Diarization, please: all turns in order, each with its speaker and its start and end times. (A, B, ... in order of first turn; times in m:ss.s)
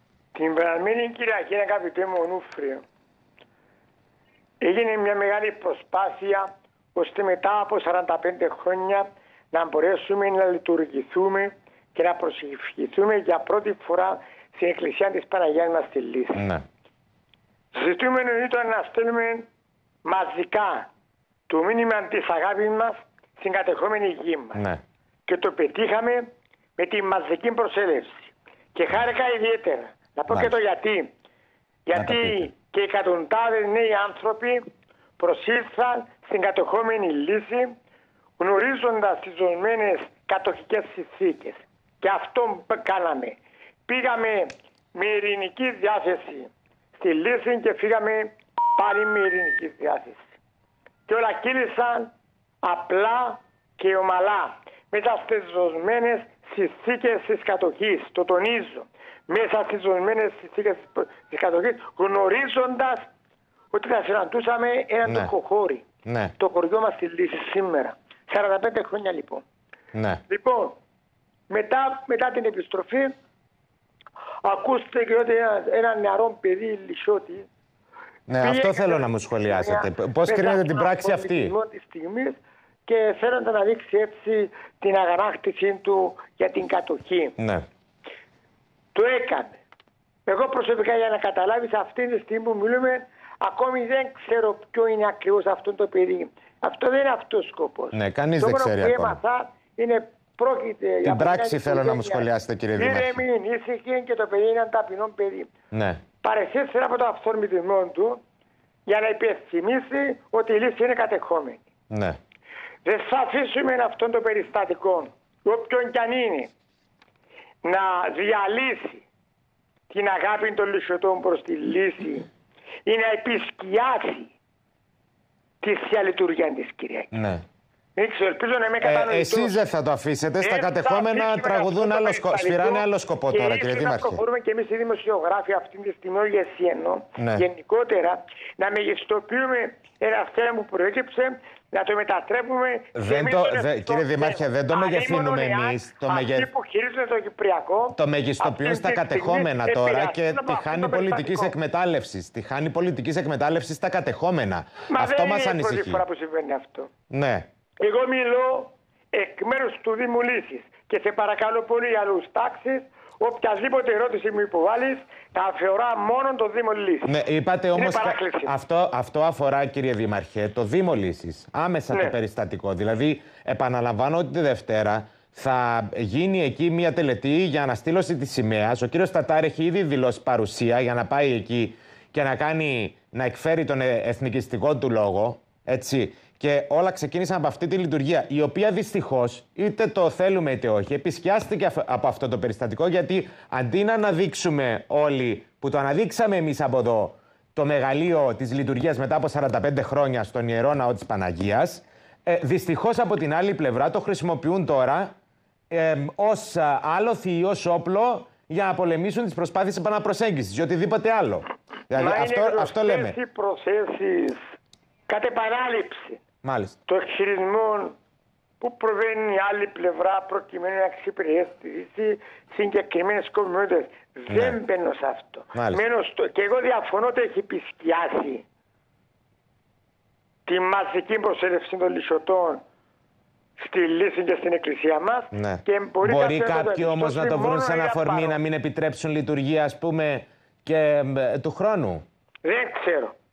0:00.4-0:02.8 A
0:04.6-0:16.4 A
0:16.4-0:16.6 B
0:17.7-0:19.5 A
0:20.0-0:20.9 A
0:21.5-0:24.6 A
0:24.6-0:24.8 B
0:25.3-0:31.1 A
0:31.9-0:34.6 A
0:32.0-0:32.5 B
0:35.2-0:37.8 A
0:38.4-0:50.2 A
0:51.1-1:03.1 A
1:03.7-1:05.8 A
1:05.0-1:05.3 B
1:06.1-1:06.3 B
1:06.4-1:09.4 A
1:09.9-1:10.2 B
1:10.3-1:10.8 A
1:11.5-1:13.1 A
1:14.4-1:17.5 A
1:18.3-1:21.5 B
1:18.4-1:27.4 A
1:27.4-1:27.6 B
1:29.0-1:29.6 A
1:30.3-1:45.5 A
1:37.9-1:39.2 B
1:41.0-1:43.2 B
1:45.7-1:46.0 B
1:46.2-1:48.2 A
1:48.9-1:51.6 A
1:51.9-1:52.2 B
1:52.8-1:56.5 A
1:57.6-1:59.0 A
1:59.9-2:02.3 A
2:02.9-2:04.3 A
2:05.6-2:07.2 A
2:07.1-2:07.4 B
2:08.0-2:09.6 A
2:08.8-2:14.2 B
2:10.4-2:31.6 A
2:17.2-2:17.5 B
2:23.0-2:26.5 B
2:28.0-2:36.0 B
2:34.9-2:36.9 A
2:37.1-2:37.4 B
2:37.8-2:47.2 A
2:47.1-3:25.1 B
2:47.8-2:48.5 A
3:25.7-3:33.2 B
3:31.9-3:34.4 A
3:35.1-3:36.2 A
3:36.4-3:36.8 B
3:36.9-3:38.0 A
3:38.6-3:48.4 A
3:44.3-3:44.6 B
3:45.6-3:45.8 B
3:50.5-3:52.6 A
3:53.6-3:58.4 A
3:55.3-4:02.0 B
4:02.4-4:03.2 A